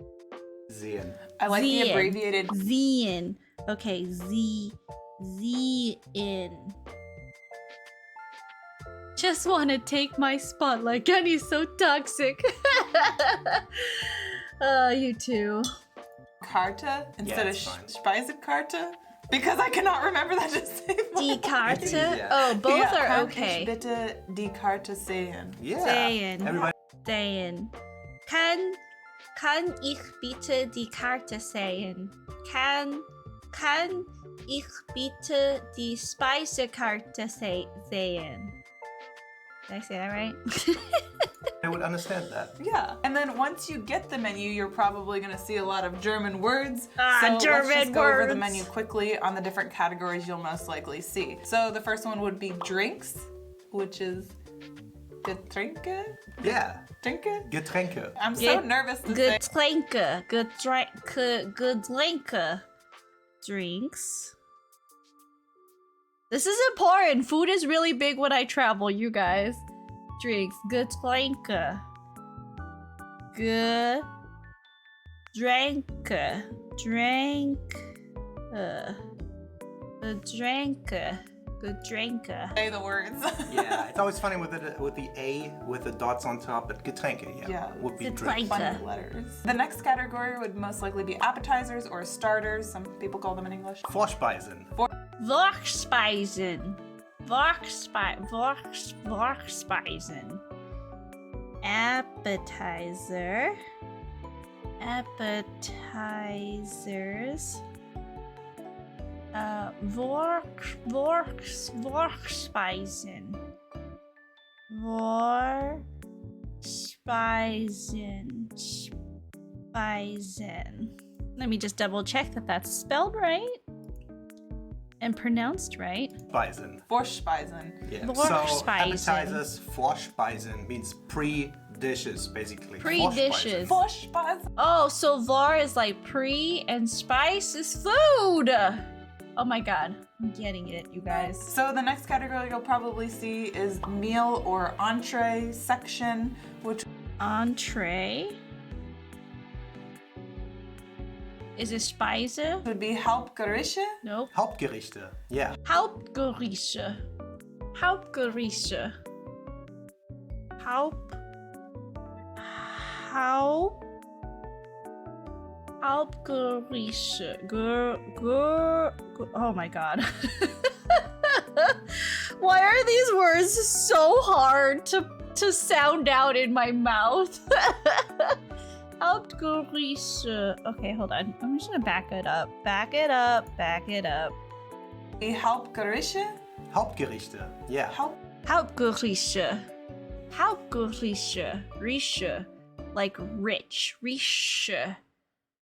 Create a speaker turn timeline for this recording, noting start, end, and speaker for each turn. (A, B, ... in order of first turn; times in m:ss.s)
0:00.7-0:01.2 A
0:01.4-0:02.5 B
0:01.5-0:06.8 C
0:09.2-0:15.7 C
0:16.4-0:25.6 B
0:17.2-0:17.9 A
0:21.2-0:23.7 C
0:21.6-0:22.4 A
0:25.6-0:26.7 A
0:25.8-0:27.7 C
0:28.2-0:28.8 C
0:29.3-0:38.6 C
0:39.7-0:41.3 C
0:41.6-0:42.6 A
0:42.6-0:54.3 B
0:47.0-0:48.7 C
0:55.2-0:57.5 B
0:56.4-0:56.8 A
0:57.4-0:58.2 A
0:58.2-0:59.4 B
0:58.4-1:02.6 C
1:03.4-1:04.3 C
1:06.3-1:09.6 C
1:10.2-1:11.8 C
1:13.3-1:14.0 C
1:15.3-1:17.8 C
1:18.5-1:19.0 C
1:20.0-1:22.6 C
1:22.6-1:23.9 B
1:23.5-1:28.6 A
1:27.4-1:33.8 B
1:28.0-1:28.8 C
1:33.9-1:34.7 A
1:35.2-1:40.4 C
1:41.6-1:43.6 C
1:44.8-1:47.6 C
1:49.3-1:53.4 C
1:54.7-1:55.8 C
1:56.6-1:58.9 C
1:59.7-2:03.6 C
2:05.0-2:06.2 C
2:06.3-2:06.8 A
2:06.9-2:07.9 B
2:07.8-2:13.8 A
2:08.0-2:09.4 C
2:12.8-2:13.8 C
2:13.6-2:14.5 B
2:14.6-2:21.5 C
2:21.1-2:26.8 B
2:27.2-2:28.4 C
2:31.6-2:32.6 C
2:32.6-2:34.0 B
2:34.0-2:34.3 C
2:34.3-2:35.6 A
2:35.6-2:37.0 C
2:37.7-2:39.0 C
2:40.6-2:41.2 C
2:42.4-2:43.8 C
2:45.8-2:58.4 C
2:59.0-3:04.3 C
3:05.2-3:06.4 B
3:06.7-3:08.0 A
3:08.4-3:09.6 C
3:10.3-3:15.0 C